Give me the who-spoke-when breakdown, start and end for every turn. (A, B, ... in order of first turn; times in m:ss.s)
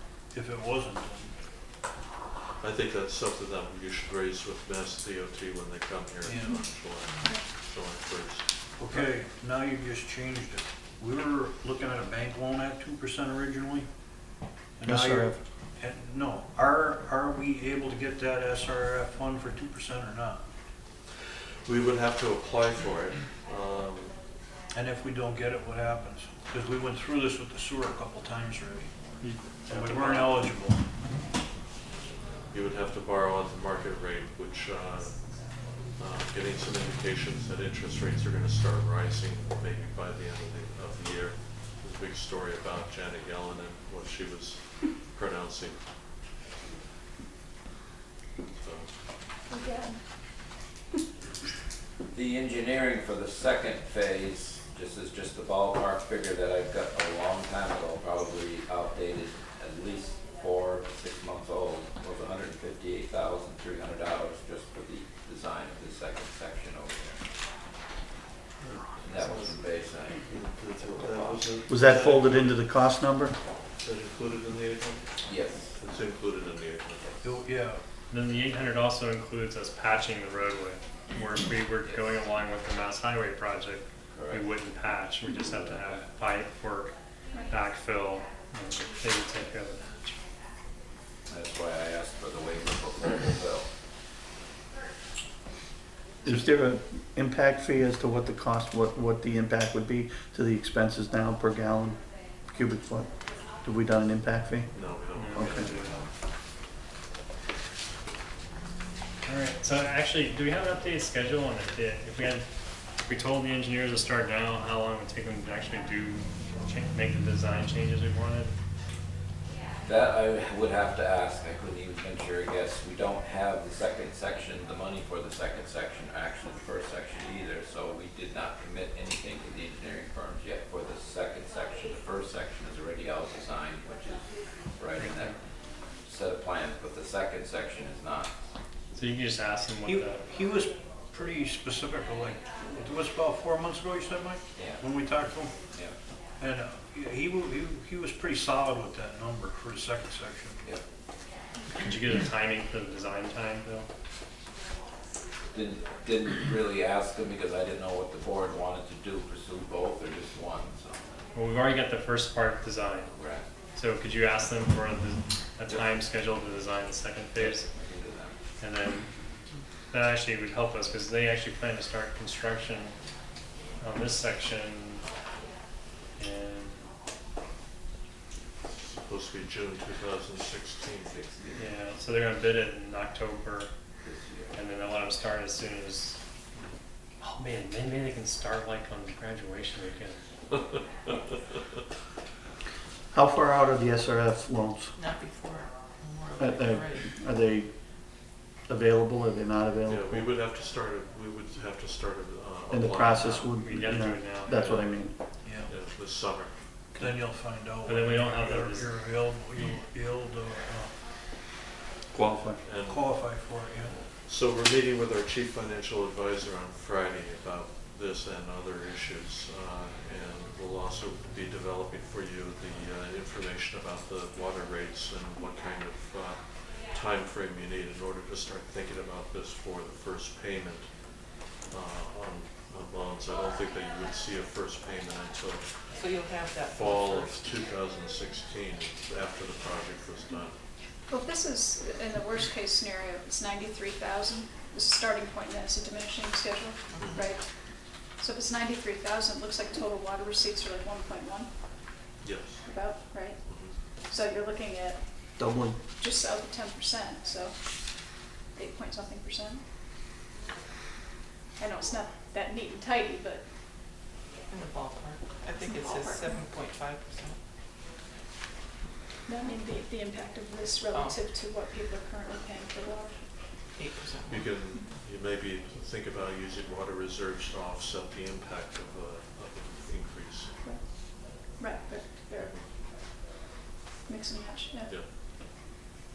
0:00.3-0:01.4 A
0:02.6-0:08.4 B
0:06.2-0:06.5 A
0:07.2-0:07.4 C
0:08.8-0:13.9 A
0:14.8-0:20.4 A
0:14.8-0:15.4 D
0:21.6-0:24.2 B
0:24.7-0:30.8 A
0:29.2-0:30.4 E
0:30.0-0:30.3 D
0:32.5-0:35.4 B
0:35.9-0:45.8 B
0:48.5-0:48.9 B
0:49.5-0:50.0 C
0:52.1-1:07.2 F
1:08.6-1:12.6 B
1:09.0-1:10.2 F
1:11.7-1:13.3 D
1:13.8-1:15.1 B
1:15.2-1:15.7 F
1:15.7-1:17.2 B
1:17.2-1:17.8 A
1:18.1-1:26.9 E
1:21.8-1:22.2 F
1:24.1-1:24.4 F
1:25.5-1:26.0 F
1:27.3-1:27.6 C
1:27.5-1:30.2 E
1:31.3-1:33.7 F
1:36.2-1:44.8 D
1:44.7-1:46.1 B
1:45.1-1:46.0 E
1:45.3-1:45.7 D
1:49.2-1:52.5 E
1:53.0-1:58.5 E
1:59.8-2:15.4 F
2:16.0-2:18.3 F
2:18.9-2:20.3 E
2:19.8-2:25.5 A
2:24.6-2:24.8 F
2:26.4-2:30.7 A
2:31.7-2:33.9 E
2:35.5-2:41.1 F
2:41.3-2:43.1 E
2:43.1-2:43.5 F
2:43.7-2:47.7 E
2:47.4-2:48.4 F
2:48.6-2:49.1 E
2:49.9-2:52.9 E
2:53.8-2:55.0 E
2:56.2-2:56.9 E
2:58.7-3:01.2 B
3:01.1-3:01.7 F
3:01.5-3:03.7 E
3:04.0-3:04.6 F
3:04.5-3:06.2 E
3:07.2-3:10.2 E
3:13.1-3:14.9 D
3:15.0-3:17.1 G
3:16.4-3:17.7 D
3:18.7-3:20.3 D
3:19.9-3:23.5 B
3:22.7-3:25.1 D
3:23.3-3:24.9 E
3:24.5-3:24.9 B
3:25.4-3:25.7 A
3:25.6-3:26.5 B
3:26.9-3:31.0 A
3:27.8-3:29.0 E
3:32.1-3:32.6 D
3:32.6-3:33.1 B
3:32.8-3:34.0 A
3:34.1-3:51.1 B
3:51.7-3:55.7 B
3:55.9-3:57.6 G
3:56.6-4:00.6 B
4:01.1-4:07.5 C
4:07.0-4:07.3 B
4:08.1-4:11.5 C
4:12.2-4:13.7 B
4:12.6-4:15.3 C
4:15.4-4:15.8 D
4:16.0-4:19.6 C
4:21.6-4:23.4 C
4:24.5-4:27.4 G
4:25.6-4:26.4 C
4:29.3-4:33.6 C
4:33.7-4:34.4 G
4:34.3-4:40.5 B
4:40.6-4:42.6 C
4:42.4-4:42.6 B
4:44.1-4:45.0 C